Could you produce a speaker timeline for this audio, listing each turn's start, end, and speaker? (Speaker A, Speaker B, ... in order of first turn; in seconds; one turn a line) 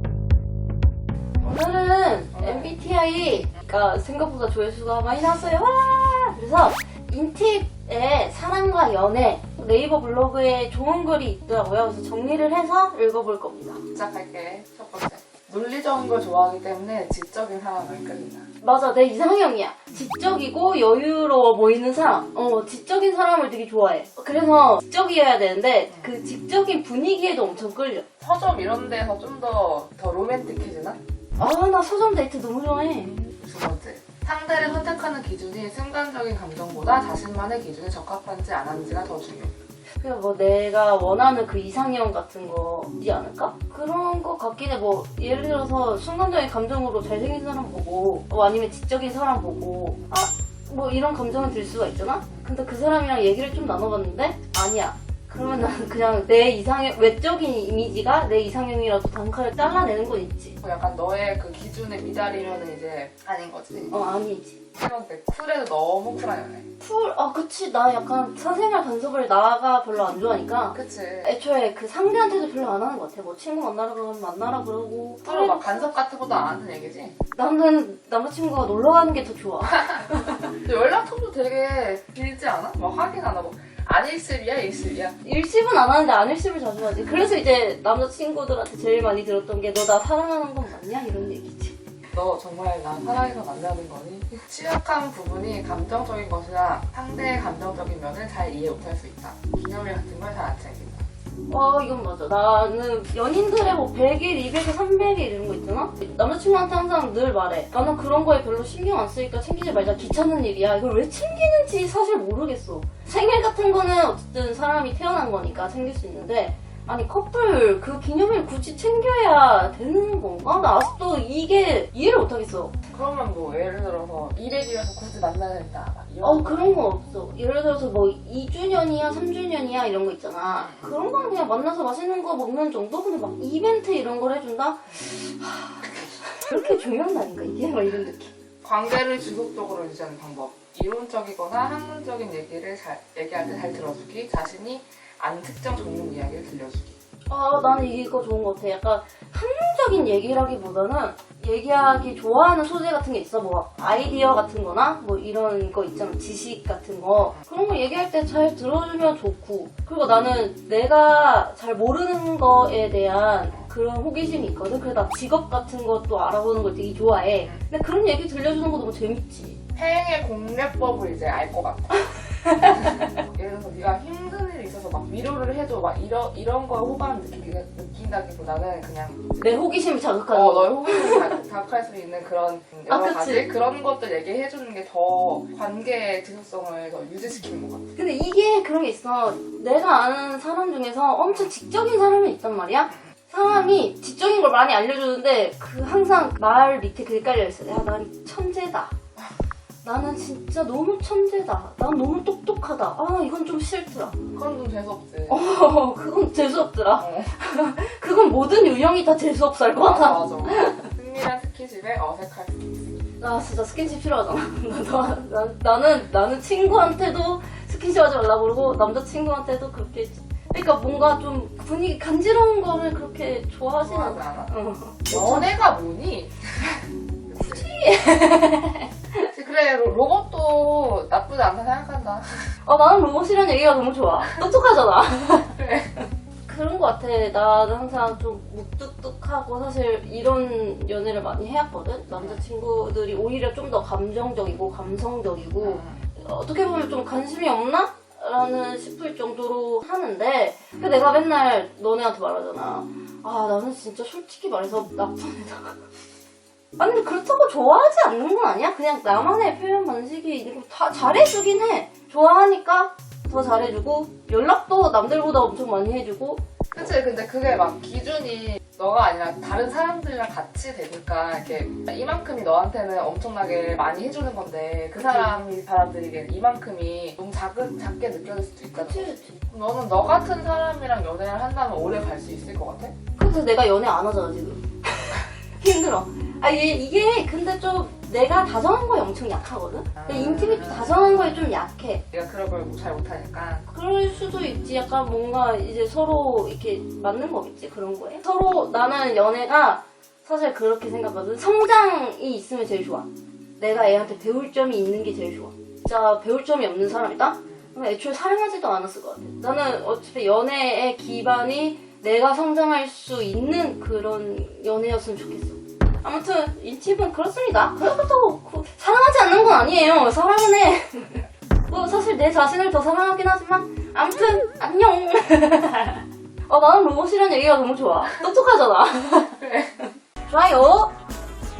Speaker A: 1.4-13.8
Speaker B: 2.3-2.8
Speaker B: 13.9-18.5
Speaker A: 18.6-28.1
Speaker B: 28.2-31.0
Speaker A: 31.4-33.1
Speaker B: 33.1-39.6
Speaker A: 40.0-60.6
Speaker B: 60.6-64.0
Speaker A: 63.9-64.6
Speaker B: 64.8-66.7
Speaker A: 66.8-75.9
Speaker B: 70.7-71.3
Speaker B: 75.2-77.2
Speaker A: 77.3-80.5
Speaker B: 80.6-85.2
Speaker A: 85.2-91.8
Speaker B: 92.1-101.0
Speaker A: 101.5-122.8
Speaker B: 122.9-126.9
Speaker A: 126.2-138.3
Speaker B: 130.5-130.9
Speaker B: 138.6-147.0
Speaker A: 147.3-169.6
Speaker B: 157.2-157.4
Speaker B: 169.8-172.1
Speaker A: 172.2-173.2
Speaker B: 172.6-179.5
Speaker A: 179.4-181.4
Speaker B: 180.3-187.9
Speaker A: 182.9-183.5
Speaker A: 188.0-198.9
Speaker A: 199.8-204.2
Speaker B: 204.3-205.4
Speaker A: 205.3-210.9
Speaker B: 207.0-207.3
Speaker B: 209.8-213.0
Speaker A: 213.2-225.5
Speaker B: 223.8-224.5
Speaker B: 225.1-227.8
Speaker A: 227.4-229.3
Speaker B: 229.3-232.5
Speaker A: 232.7-235.6
Speaker B: 235.6-236.1
Speaker A: 236.5-255.8
Speaker B: 242.1-242.4
Speaker B: 245.6-246.0
Speaker A: 256.8-266.8
Speaker B: 266.7-283.0
Speaker A: 274.9-275.4
Speaker A: 278.7-279.4
Speaker A: 283.2-292.0
Speaker B: 290.0-291.3
Speaker B: 292.1-293.7
Speaker A: 293.7-303.1
Speaker A: 303.6-329.4
Speaker B: 303.7-304.3
Speaker B: 329.4-329.8
Speaker A: 330.3-330.9